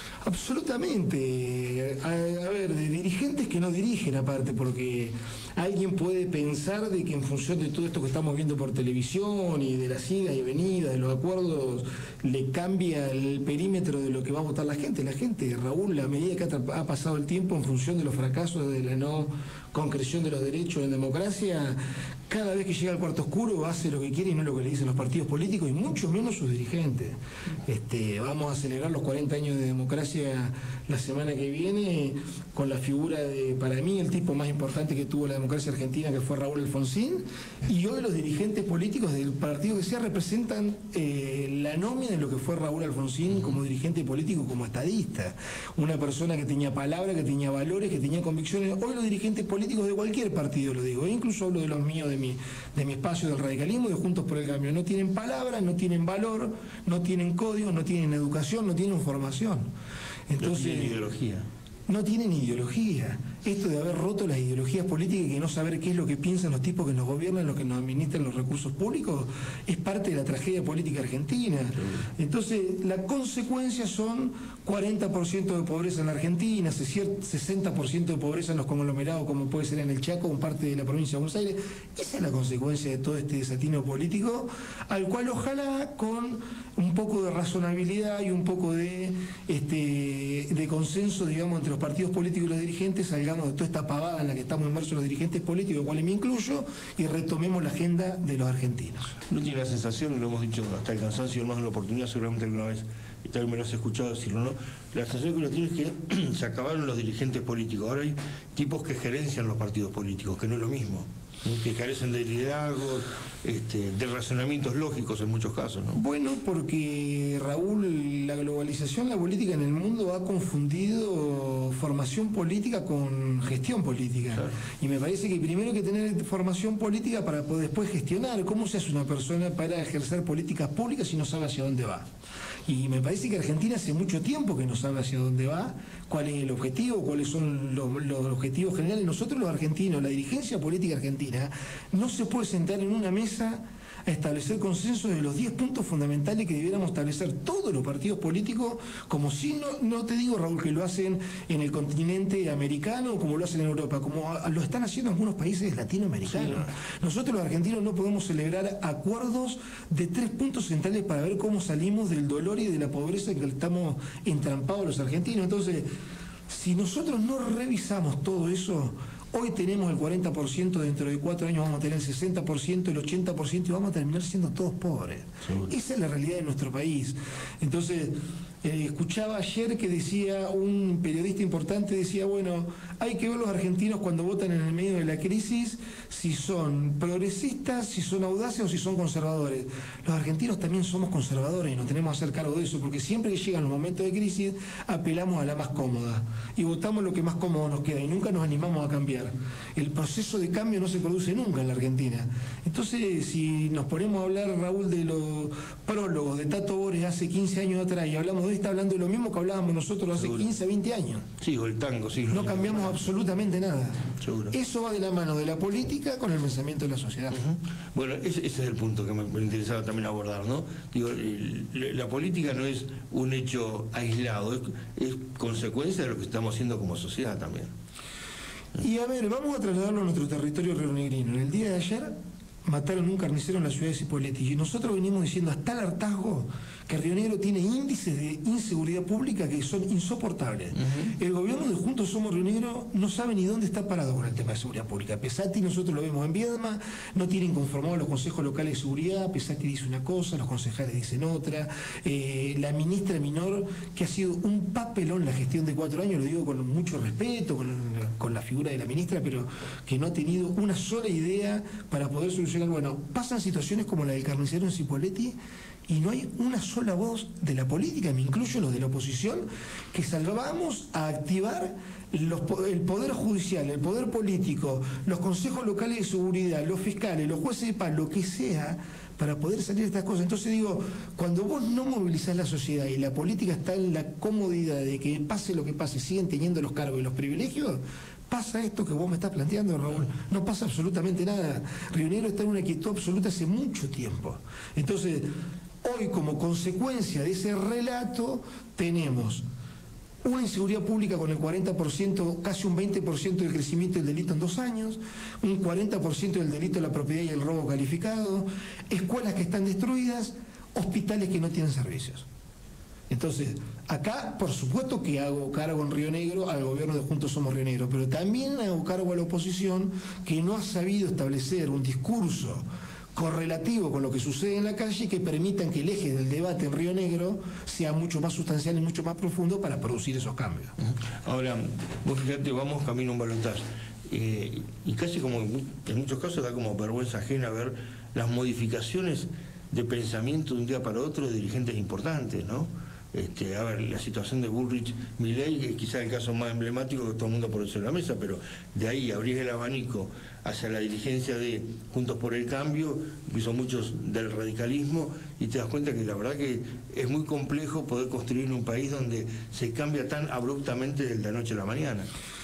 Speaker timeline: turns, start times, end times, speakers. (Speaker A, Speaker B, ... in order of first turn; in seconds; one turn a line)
Speaker A: 0.2-59.7
Speaker A: 60.3-61.0
Speaker B: 60.4-61.5
Speaker A: 61.9-99.2
Speaker B: 99.3-116.0
Speaker A: 115.9-132.1
Speaker A: 132.7-165.9
Speaker A: 166.5-211.2
Speaker B: 210.2-210.4
Speaker B: 211.4-213.0
Speaker A: 212.3-214.0
Speaker B: 214.2-214.5
Speaker A: 214.5-217.4
Speaker B: 217.3-227.7
Speaker A: 228.8-232.1
Speaker A: 232.6-265.4
Speaker B: 240.8-241.1
Speaker A: 265.9-295.3
Speaker A: 295.8-299.4
Speaker A: 300.2-312.2
Speaker A: 313.1-322.6
Speaker A: 323.1-330.7
Speaker B: 330.8-362.1